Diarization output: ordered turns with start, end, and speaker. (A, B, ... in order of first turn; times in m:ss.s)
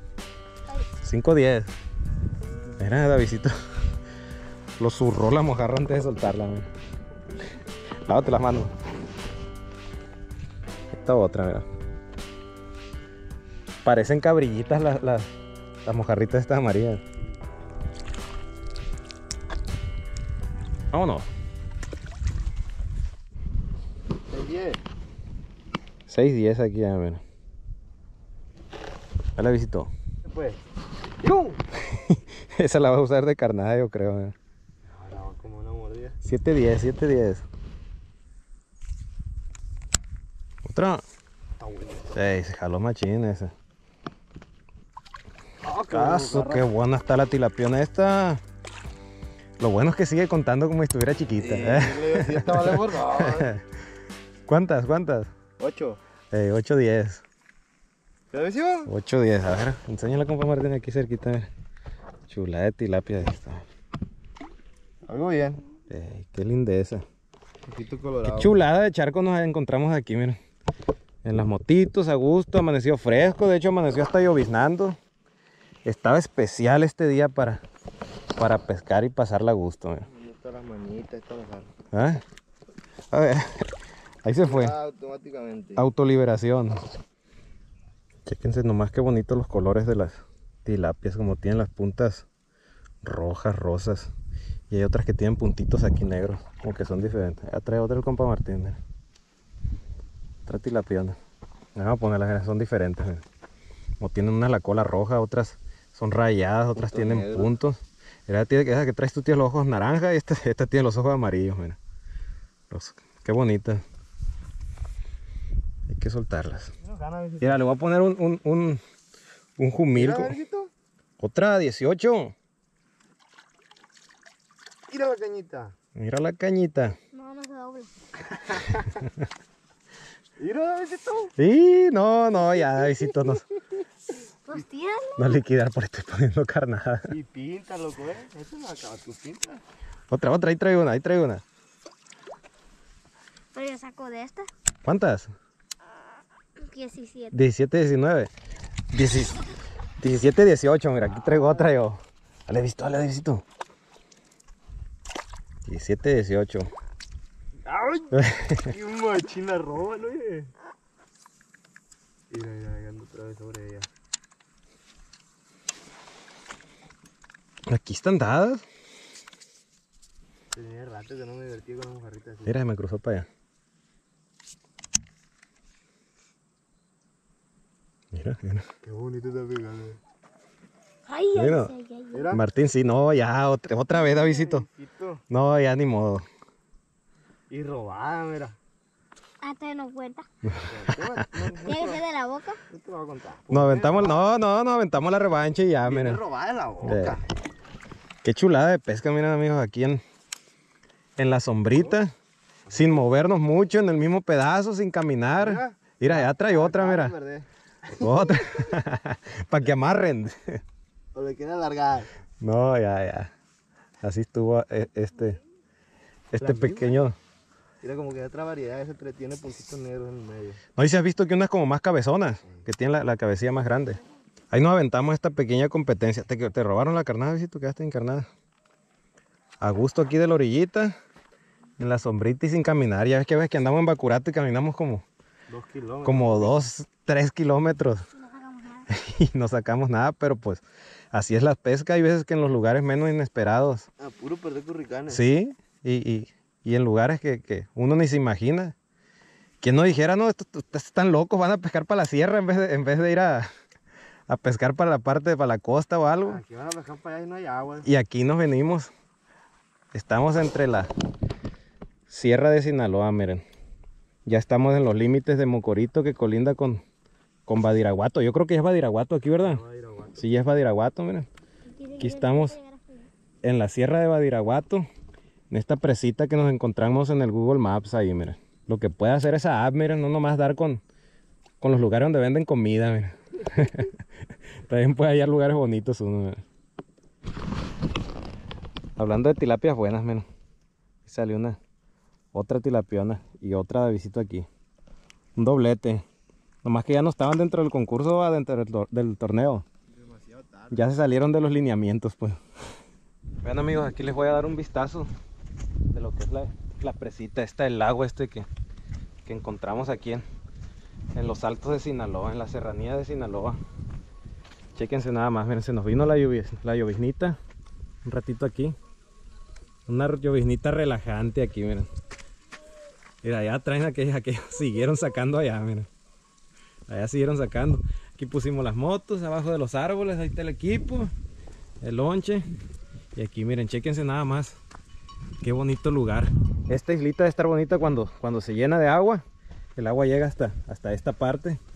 0:01.0-0:01.7 A
0:02.8-0:03.5 A
0:04.8-0:06.7 A
0:08.0-0:08.7 A
0:10.9-0:11.6 A
0:13.8-0:15.3 A
0:15.8-0:17.0 A
0:20.9-0:21.2 A
0:24.3-0:24.8 B
0:26.1-0:27.2 A
0:29.4-0:29.9 A
0:30.2-0:30.6 B
0:31.2-0:31.6 B
0:31.8-0:34.3 A
0:34.8-0:36.2 B
0:36.2-0:37.4 A
0:40.6-0:41.0 A
0:41.6-0:42.1 B
0:42.1-0:43.5 A
0:45.6-0:46.6 B
0:45.9-0:48.4 A
0:49.6-0:53.6 A
0:51.4-0:53.5 B
0:54.5-0:55.3 A
0:55.6-0:56.0 B
0:56.3-0:57.2 A
0:58.3-0:58.9 B
0:58.8-1:01.5 A
1:02.3-1:03.6 A
1:05.0-1:05.6 B
1:05.9-1:07.0 A
1:07.6-1:08.5 B
1:08.2-1:10.4 A
1:11.2-1:15.0 A
1:15.8-1:17.6 A
1:18.4-1:20.1 A
1:20.1-1:21.7 B
1:21.9-1:22.2 A
1:23.1-1:23.7 A
1:24.2-1:24.8 A
1:24.4-1:25.8 B
1:25.8-1:26.8 A
1:28.2-1:32.2 A
1:33.0-1:34.1 A
1:34.7-1:38.8 A
1:40.4-1:41.2 A
1:41.8-1:43.2 A
1:44.0-1:51.8 A
1:46.8-1:47.5 B
1:52.7-1:53.8 A
1:55.9-1:56.7 A
1:56.8-1:57.7 B
1:57.4-1:58.8 A
1:59.6-2:00.3 A
1:59.9-2:00.7 B
2:01.2-2:02.3 A
2:04.9-2:05.8 B
2:06.0-2:07.0 A
2:07.1-2:07.9 C
2:08.3-2:09.0 B
2:10.4-2:11.3 B
2:11.4-2:13.4 A
2:14.4-2:15.4 C
2:15.2-2:17.1 A
2:17.1-2:19.6 B
2:20.1-2:21.4 A
2:23.5-2:24.5 C
2:24.8-2:25.3 A
2:26.6-2:27.4 C
2:27.3-2:28.3 A
2:28.9-2:29.4 A
2:30.0-2:33.4 A
2:31.3-2:31.6 B
2:35.6-2:36.7 A
2:37.6-2:40.5 B
2:38.1-2:38.7 A
2:42.3-2:43.9 B
2:47.7-2:48.6 A
2:50.5-2:52.6 B
2:52.4-2:53.3 A
2:58.1-2:58.7 A
2:58.8-3:00.0 B
3:01.1-3:02.3 C
3:01.3-3:01.7 A
3:02.1-3:02.4 B
3:02.3-3:04.6 A
3:04.0-3:05.2 B
3:05.3-3:06.2 A
3:07.5-3:08.6 B
3:09.4-3:10.3 C
3:10.4-3:11.0 A
3:10.7-3:12.0 B
3:11.6-3:12.6 C
3:12.7-3:14.2 B
3:13.5-3:16.2 A
3:15.8-3:17.2 B
3:16.8-3:17.2 A
3:18.2-3:20.0 A
3:21.2-3:22.1 A
3:22.7-3:23.0 B
3:22.7-3:27.1 A
3:25.4-3:28.7 B
3:27.9-3:30.6 A
3:31.1-3:32.1 B
3:32.4-3:33.3 A
3:34.0-3:35.4 A
3:36.3-3:37.2 A
3:36.4-3:37.1 B
3:37.8-3:40.6 B
3:40.8-3:48.3 A
3:49.6-3:51.0 A
3:51.8-3:55.0 A
3:55.5-3:56.6 B
3:56.0-3:58.0 A
3:58.2-3:58.9 C
3:58.9-4:03.9 A
4:04.0-4:05.2 B
4:05.1-4:08.8 A
4:09.6-4:13.5 A
4:14.3-4:16.4 A
4:16.2-4:17.9 B
4:17.8-4:18.9 A
4:19.9-4:20.9 A
4:22.1-4:23.4 A
4:24.2-4:26.8 A
4:27.5-4:29.6 A
4:29.4-4:30.3 B
4:30.2-4:31.3 A
4:31.7-4:33.1 C
4:32.0-4:32.6 A
4:33.4-4:34.8 A
4:35.5-4:40.8 A
4:41.6-4:44.0 A
4:44.6-4:46.4 A
4:49.0-4:50.3 A
4:51.0-4:51.6 A
4:52.3-4:54.5 A
4:55.4-4:56.0 A
4:56.6-4:59.6 A
4:59.9-5:01.0 B
5:00.7-5:02.4 A
5:03.4-5:05.1 A
5:05.9-5:08.5 A
5:09.2-5:10.2 A
5:11.1-5:13.6 A
5:14.8-5:17.4 A
5:18.0-5:18.8 A
5:19.9-5:21.9 A
5:23.2-5:25.9 A
5:26.9-5:31.1 A
5:31.8-5:32.4 A
5:33.1-5:34.6 A
5:35.4-5:39.2 A
5:39.8-5:41.6 A